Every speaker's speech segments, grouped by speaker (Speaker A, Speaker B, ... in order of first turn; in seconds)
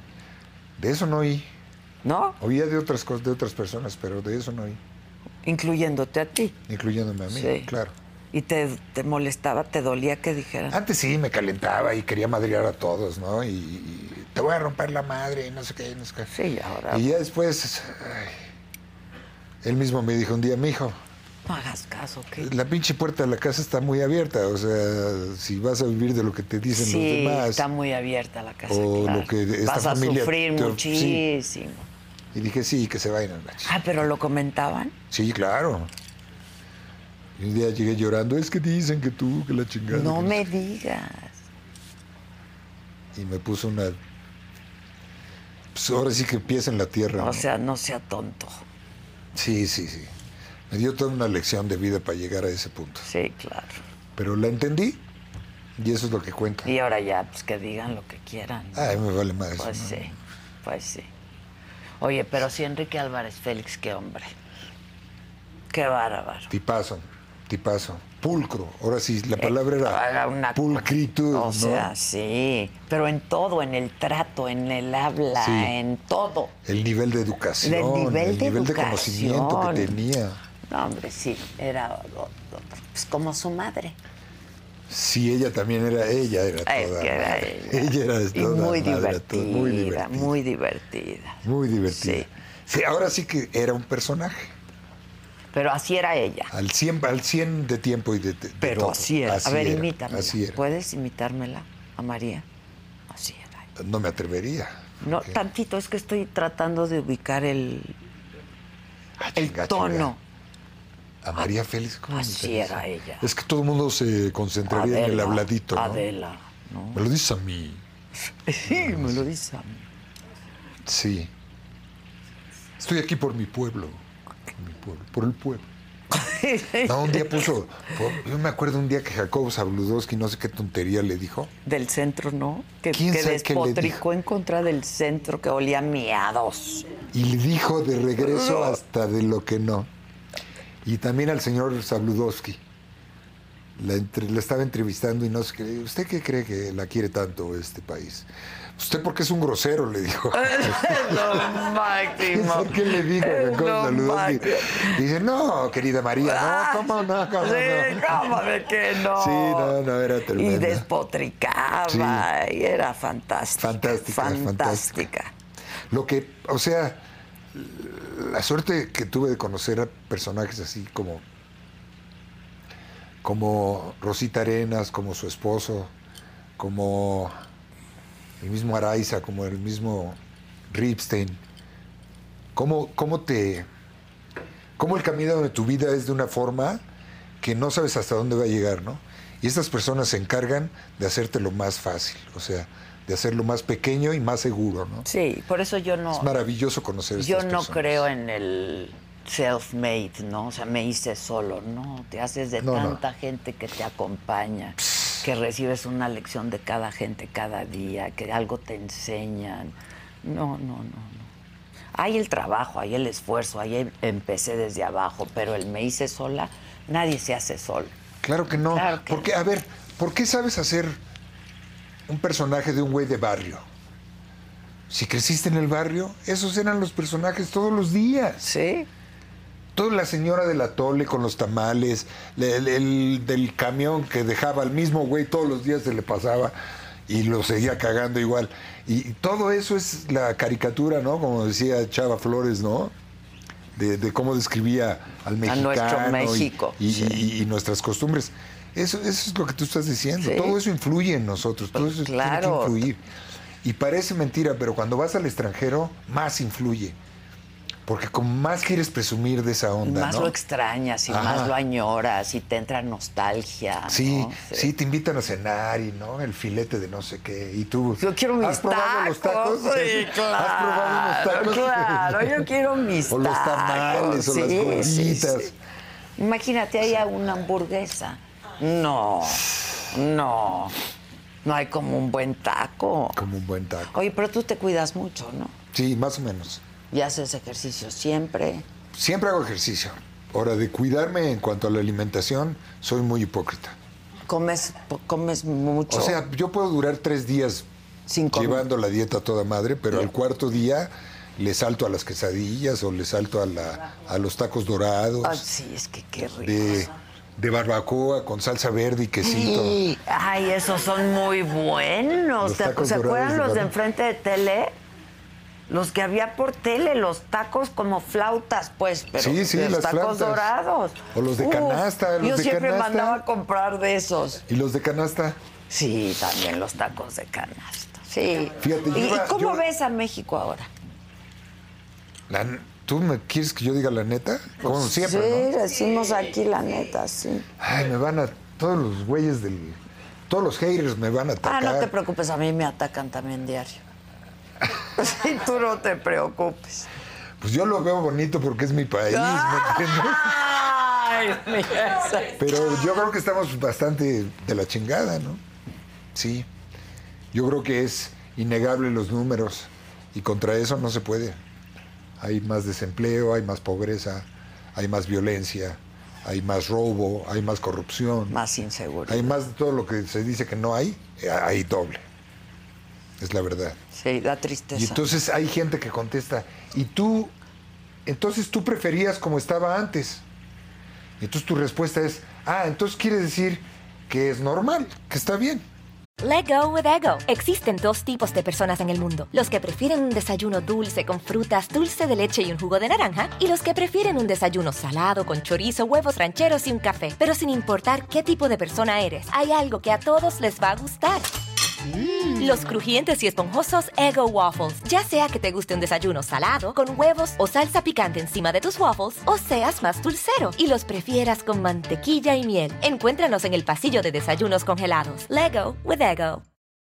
Speaker A: 0.8-1.5, 2.4-4.8, 6.7-7.9, 10.7-16.3, 16.9-18.4, 19.6-21.0, 22.4-27.6, 28.7-31.2, 32.3-33.8, 35.1-35.9, 37.4-40.4, 43.1-44.0, 45.7-47.5, 49.3-50.1, 50.7-53.1, 54.1-55.0, 55.8-56.7, 58.7-60.1, 66.5-71.9, 75.3-75.7, 76.6-80.4, 84.9-90.3, 91.4-94.5, 96.5-100.6, 103.8-105.4, 109.2-110.1, 111.2-116.0, 116.9-117.8, 118.7-119.3, 120.8-121.3, 122.8-124.0, 124.5-125.7, 126.8-131.5, 132.9-134.0, 137.1-139.9, 140.8-142.6, 143.8-151.7, 152.2-158.3, 159.1-160.9, 161.9-162.3, 163.6-165.1, 165.9-171.2, 173.2-175.9, 176.6-177.3, 178.4-180.2, 180.7-181.4, 182.5-183.7, 184.8-186.8, 187.4-195.1, 196.1-198.1, 202.6-203.0, 218.2-221.0, 222.1-223.7, 224.9-228.4, 229.7-236.5, 237.1-242.9, 243.7-253.0, 253.6-256.9, 257.9-260.3, 261.1-261.5, 263.9-272.5, 273.1-275.5, 283.1-283.9, 285.7-286.6, 288.9-293.8, 295.9-297.7, 298.3-305.4, 306.4-309.8, 312.4-313.7, 319.2-320.5, 321.1-323.2, 324.5-325.4, 328.6-329.6, 332.3-335.5, 337.6-341.9, 347.4-350.5, 352.4-355.4, 356.1-356.5, 357.3-361.4, 362.2-368.4, 369.1-372.0, 373.2-373.8, 374.7-377.3, 378.1-380.2, 381.2-385.6
Speaker B: 2.0-2.4, 5.4-6.6, 7.3-7.7, 8.3-10.8, 16.3-17.1, 21.5-22.5, 26.7-31.9, 33.6-34.9, 39.9-41.4, 47.2-48.6, 53.0-53.8, 56.6-59.0, 59.5-60.1, 60.6-61.1, 62.0-64.3, 65.7-66.5, 69.4-76.5, 77.6-80.0, 80.7-84.0, 86.7-92.3, 95.5-96.5, 98.6-102.4, 103.1-103.6, 105.0-108.0, 109.3-110.2, 112.1-113.3, 114.7-117.0, 118.2-119.8, 126.1-127.4, 131.6-136.9, 138.2-138.8, 150.3-155.0, 156.2-159.8, 160.3-165.3, 195.1-196.3, 197.2-211.3, 211.9-217.9, 218.7-219.3, 228.4-228.9, 245.4-247.2, 250.2-250.6, 251.7-252.8, 259.8-264.7, 268.0-275.5, 276.2-280.8, 281.4-283.2, 283.9-285.5, 286.9-288.7, 294.3-296.2, 298.1-298.6, 305.2-306.9, 309.2-314.7, 315.7-324.4, 325.7-330.7, 334.6-337.5, 341.4-343.8, 344.8-346.9, 349.1-352.5, 368.3-369.4, 373.9-375.1
Speaker C: 386.2-401.3, 402.3-416.4